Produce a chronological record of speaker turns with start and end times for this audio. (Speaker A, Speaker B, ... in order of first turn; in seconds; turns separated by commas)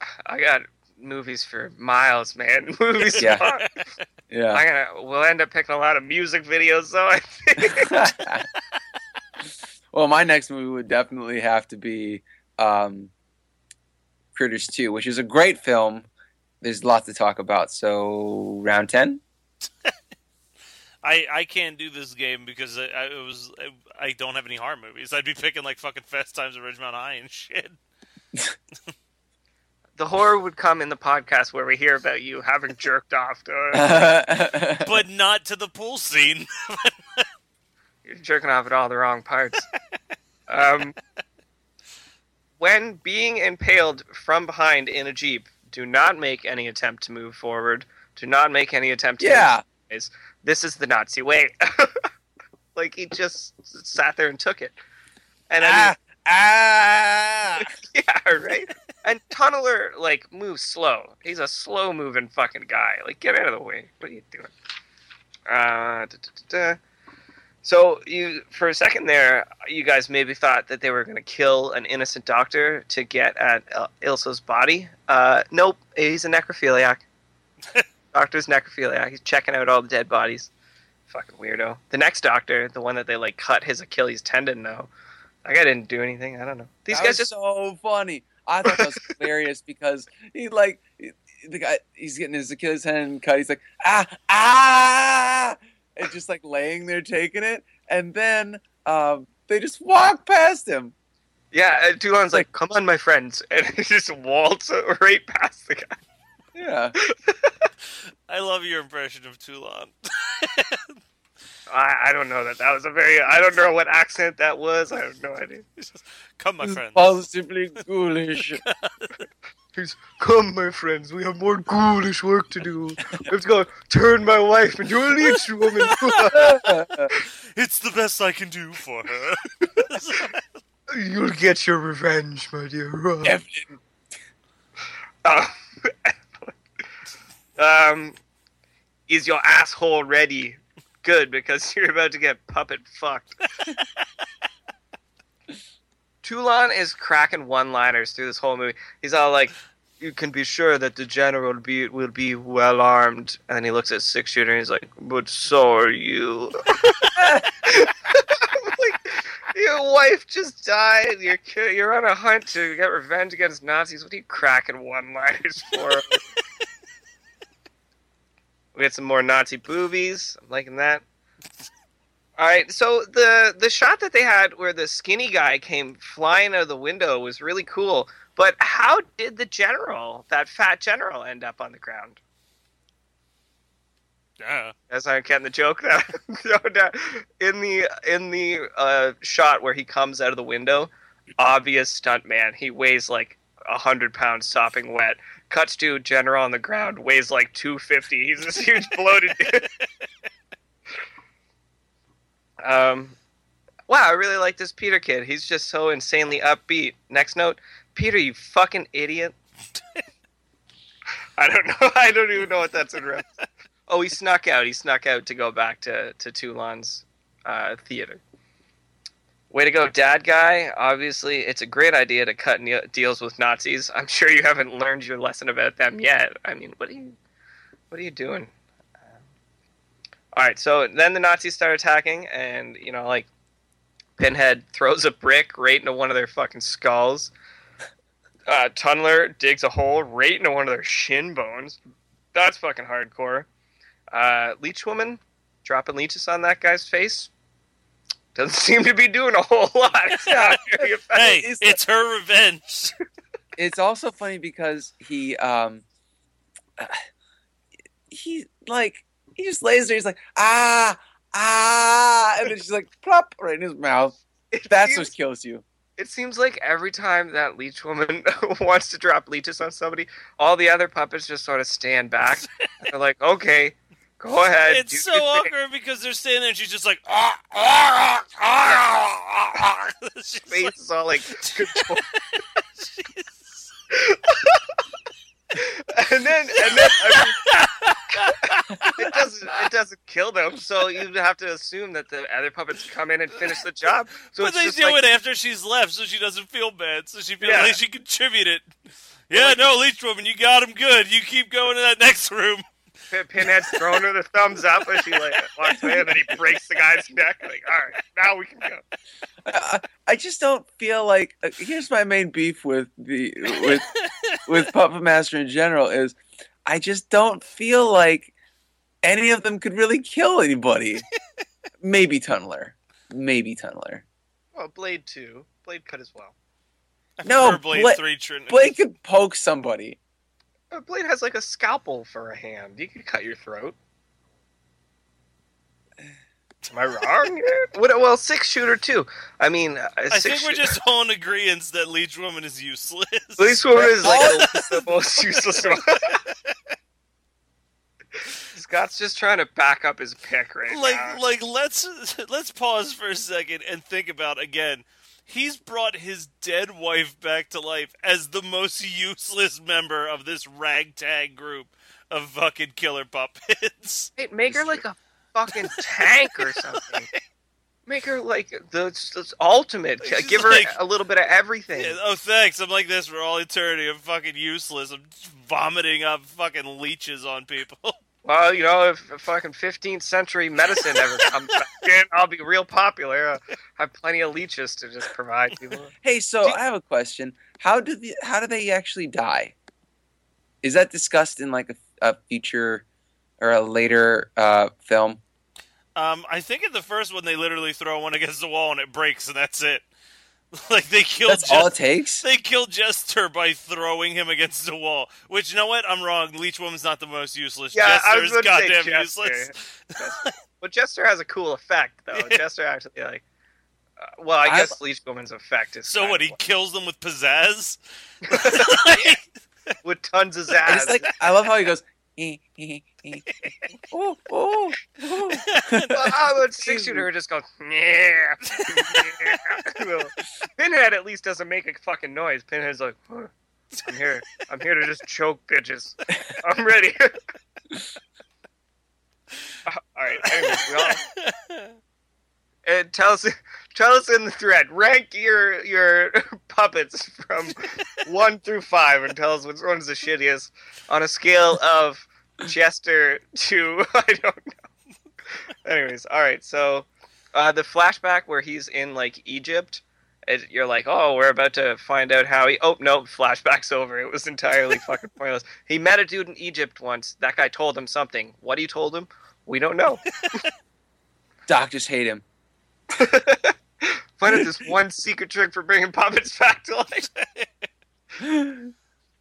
Speaker A: 0.2-3.7, Speaker B: 3.0-3.8, Speaker C: 3.2-3.4, Speaker C: 4.3-4.6, Speaker A: 4.5-8.1, Speaker C: 7.7-8.5, Speaker C: 9.9-13.1, Speaker C: 14.3-16.1, Speaker C: 16.6-19.2, Speaker B: 21.0-27.8, Speaker A: 30.0-34.0, Speaker C: 33.7-34.9, Speaker B: 34.8-37.2, Speaker A: 38.0-39.6, Speaker A: 40.5-41.0, Speaker A: 42.6-51.9, Speaker C: 49.2-49.6, Speaker A: 52.7-54.7, Speaker A: 55.5-55.9, Speaker C: 55.6-57.7, Speaker A: 57.6-64.5, Speaker A: 65.5-66.8, Speaker A: 67.6-77.0, Speaker A: 78.1-80.5, Speaker A: 81.1-84.9, Speaker A: 85.4-87.3, Speaker C: 86.9-100.9, Speaker A: 101.5-106.0, Speaker C: 106.5-107.0, Speaker A: 107.0-107.7, Speaker B: 108.3-111.0, Speaker A: 111.7-115.6, Speaker B: 115.8-117.2, Speaker C: 116.6-118.6, Speaker B: 118.6-119.2, Speaker A: 119.8-127.2, Speaker C: 126.3-127.1, Speaker B: 127.5-130.4, Speaker A: 130.9-133.3, Speaker C: 133.2-133.7, Speaker A: 135.2-136.5, Speaker A: 137.6-138.2, Speaker A: 139.1-143.4, Speaker A: 146.2-166.2, Speaker C: 157.2-157.4, Speaker A: 168.7-171.0, Speaker A: 172.4-182.2, Speaker B: 184.4-184.7, Speaker A: 184.9-199.8, Speaker A: 202.6-203.2, Speaker A: 203.9-209.3, Speaker A: 211.4-213.3, Speaker A: 213.9-218.2, Speaker A: 219.5-227.1, Speaker A: 227.9-228.5, Speaker A: 230.3-233.3, Speaker A: 234.2-237.3, Speaker A: 238.5-241.8, Speaker A: 242.3-243.5, Speaker A: 244.1-247.3, Speaker A: 248.3-251.4, Speaker C: 250.3-250.9, Speaker B: 251.1-252.9, Speaker C: 251.4-251.8, Speaker C: 253.6-255.8, Speaker C: 256.8-257.0, Speaker C: 258.1-265.6, Speaker A: 264.5-265.1, Speaker A: 266.0-275.5, Speaker B: 274.7-280.7, Speaker A: 280.5-282.1, Speaker B: 281.4-281.8, Speaker B: 282.8-283.7, Speaker A: 283.9-284.6, Speaker A: 285.5-287.5, Speaker B: 286.6-289.6, Speaker A: 288.9-295.0, Speaker B: 294.4-298.7, Speaker A: 297.4-297.8, Speaker B: 299.3-302.6, Speaker A: 299.3-299.6, Speaker A: 303.1-308.8, Speaker B: 303.4-303.8, Speaker B: 304.9-306.6, Speaker C: 309.4-313.9, Speaker B: 313.5-314.4, Speaker C: 314.4-318.3, Speaker C: 319.0-321.0, Speaker C: 321.8-324.0, Speaker A: 324.5-326.3, Speaker B: 327.2-328.7, Speaker C: 327.2-330.0, Speaker A: 330.7-333.8, Speaker A: 336.7-340.6, Speaker B: 340.1-345.8, Speaker A: 343.4-346.2, Speaker C: 343.7-344.4, Speaker A: 348.5-351.2, Speaker B: 350.7-364.8, Speaker A: 364.2-367.1, Speaker B: 366.4-366.6, Speaker A: 367.9-371.9, Speaker B: 370.0-370.7, Speaker B: 371.7-378.0, Speaker A: 378.2-385.9, Speaker C: 386.0-389.5, Speaker C: 390.6-392.8, Speaker C: 393.4-395.2, Speaker B: 395.9-399.9, Speaker B: 400.5-410.3, Speaker C: 401.3-402.2, Speaker A: 407.7-413.2, Speaker A: 414.0-416.3, Speaker C: 414.4-414.8, Speaker B: 415.9-419.3, Speaker A: 418.3-419.2, Speaker A: 419.8-421.0, Speaker C: 420.7-423.2, Speaker B: 423.4-423.7, Speaker C: 423.9-426.0, Speaker B: 425.3-426.0, Speaker A: 425.9-437.1, Speaker C: 426.6-427.1, Speaker B: 428.6-429.4, Speaker A: 439.7-441.0, Speaker B: 440.4-441.7, Speaker A: 442.6-454.5, Speaker A: 455.6-470.0, Speaker C: 471.5-472.2, Speaker A: 472.9-477.1, Speaker B: 477.2-477.5, Speaker C: 478.2-478.7